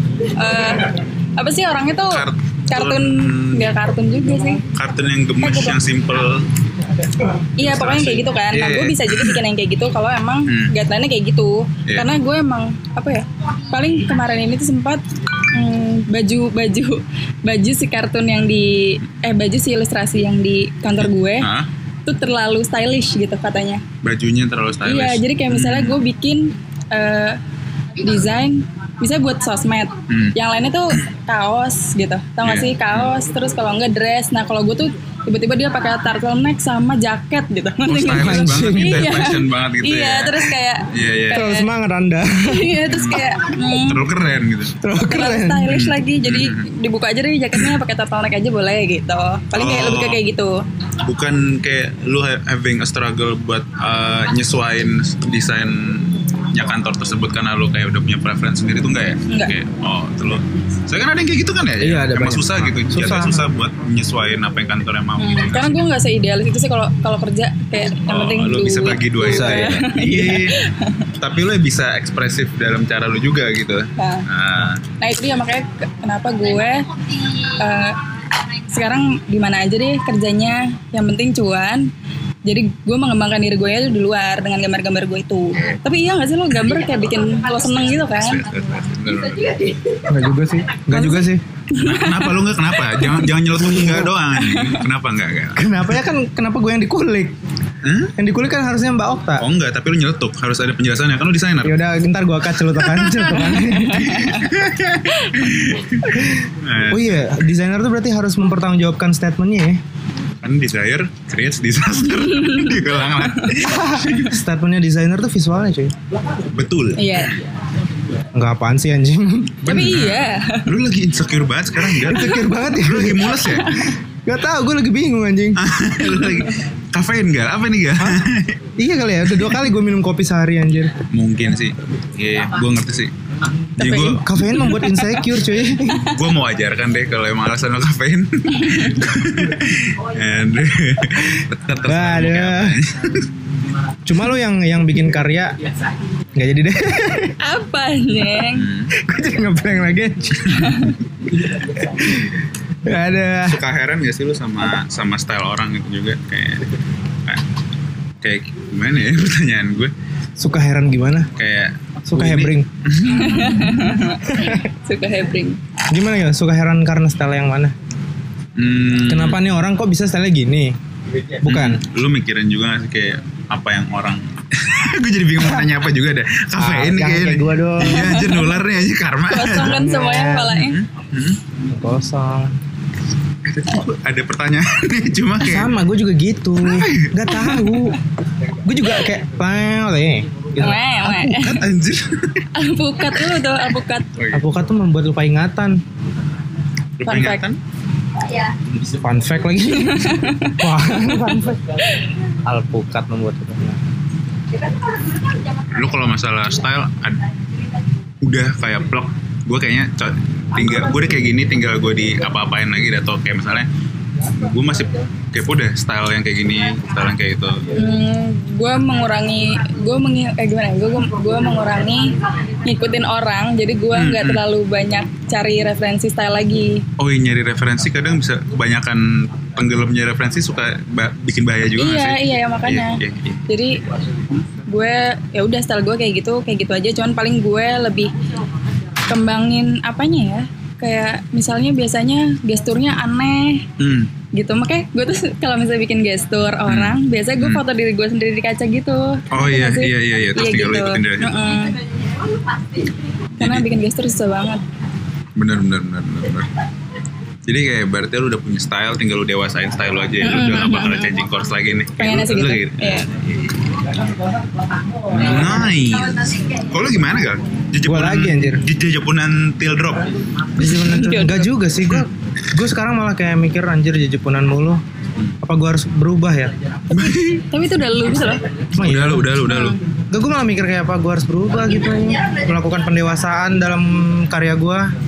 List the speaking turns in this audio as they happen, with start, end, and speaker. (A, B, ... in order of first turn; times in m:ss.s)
0:00.3-0:04.6 A
0:02.1-0:03.7 B
0:04.7-0:06.4 B
0:05.4-0:05.7 A
0:07.6-0:21.5 A
0:07.6-0:09.4 B
0:21.0-0:21.7 B
0:22.1-0:23.8 A
0:24.0-0:26.0 B
0:24.9-0:27.4 A
0:28.0-0:41.7 A
0:30.1-0:30.4 B
0:32.4-0:33.1 B
0:37.9-0:41.5 B
0:38.1-0:39.3 C
0:41.3-0:42.8 C
0:42.4-0:44.0 A
0:42.9-0:44.8 B
0:44.8-0:45.7 C
0:45.0-0:50.6 A
0:45.7-0:46.7 B
0:49.5-0:50.2 B
0:51.0-1:05.8 B
0:59.3-0:59.6 A
1:01.8-1:03.5 C
1:05.2-1:11.1 A
1:08.1-1:10.6 B
1:09.2-1:09.7 C
1:11.2-1:14.8 B
1:14.0-1:14.3 A
1:15.0-1:18.0 A
1:18.7-1:21.9 A
1:22.4-1:28.5 A
1:27.7-1:29.8 B
1:30.1-1:31.4 C
1:30.9-1:33.4 A
1:31.8-1:35.7 B
1:33.6-1:34.1 C
1:34.4-1:34.8 A
1:35.6-1:37.3 C
1:37.8-1:38.1 B
1:38.2-1:39.5 C
1:39.4-1:41.8 B
1:41.6-1:44.1 C
1:42.6-1:47.5 B
1:43.4-1:44.4 A
1:45.1-1:45.5 A
1:46.9-1:49.8 C
1:50.4-1:54.4 B
1:52.2-1:53.6 A
1:53.6-1:55.9 C
1:56.5-1:57.4 B
1:57.0-1:57.3 A
1:58.4-1:59.9 C
1:59.7-2:00.7 A
1:59.7-2:03.9 B
2:02.0-2:03.4 C
2:03.4-2:03.9 A
2:04.2-2:05.6 C
2:05.6-2:08.6 B
2:06.0-2:06.6 A
2:08.8-2:10.9 C
2:11.1-2:13.1 B
2:13.8-2:14.2 B
2:13.8-2:15.2 A
2:14.2-2:16.1 C
2:15.9-2:23.3 B
2:18.5-2:19.0 A
2:21.9-2:22.8 C
2:24.1-2:25.6 C
2:26.4-2:27.4 C
2:27.4-2:28.7 A
2:28.6-2:28.9 B
2:28.9-2:30.7 C
2:30.5-2:30.8 B
2:30.6-2:30.9 A
2:31.3-2:33.6 C
2:33.4-2:36.7 B
2:38.2-2:39.9 B
2:40.4-2:41.3 C
2:41.4-2:43.9 B
2:42.1-2:42.7 C
2:43.1-2:45.6 A
2:44.3-2:44.6 C
2:45.9-2:47.8 C
2:48.6-2:49.4 B
2:49.1-2:50.8 C
2:51.4-2:51.8 C
2:51.5-3:01.4 B
2:55.4-2:55.7 C
2:56.6-2:58.4 C
2:59.3-3:00.8 A
2:59.7-3:00.6 C
3:01.7-3:02.5 C
3:03.5-3:05.8 B
3:05.4-3:08.0 C
3:06.6-3:07.8 B
3:08.6-3:10.8 C
3:10.6-3:11.6 A
3:11.0-3:12.5 B
3:12.5-3:14.1 A
3:14.2-3:14.5 B
3:14.3-3:15.8 C
3:17.0-3:17.6 B
3:17.0-3:17.4 A
3:19.0-3:21.6 C
3:19.8-3:20.6 A
3:22.4-3:23.8 C
3:25.8-3:27.2 B
3:28.2-3:33.7 B
3:34.2-3:37.6 B
3:37.8-3:46.8 A
3:43.9-3:44.4 B
3:47.0-3:53.4 B
3:51.8-3:53.8 A
3:54.7-3:58.1 A
3:59.1-4:03.7 A
4:03.8-4:04.1 B
4:04.3-4:11.8 A
4:06.7-4:07.6 B
4:09.3-4:11.4 B
4:13.4-4:13.7 B
4:13.4-4:14.6 A
4:15.4-4:16.5 B
4:17.5-4:23.5 B
4:20.2-4:21.2 A
4:22.0-4:23.1 A
4:25.1-4:30.1 B
4:27.8-4:28.6 C
4:30.6-4:34.8 C
4:30.6-4:31.5 A
4:35.4-4:36.5 C
4:36.9-4:37.5 B
4:36.9-4:38.4 A
4:38.7-4:39.8 B
4:38.8-4:39.3 C
4:39.4-4:39.8 A
4:40.1-4:44.9 C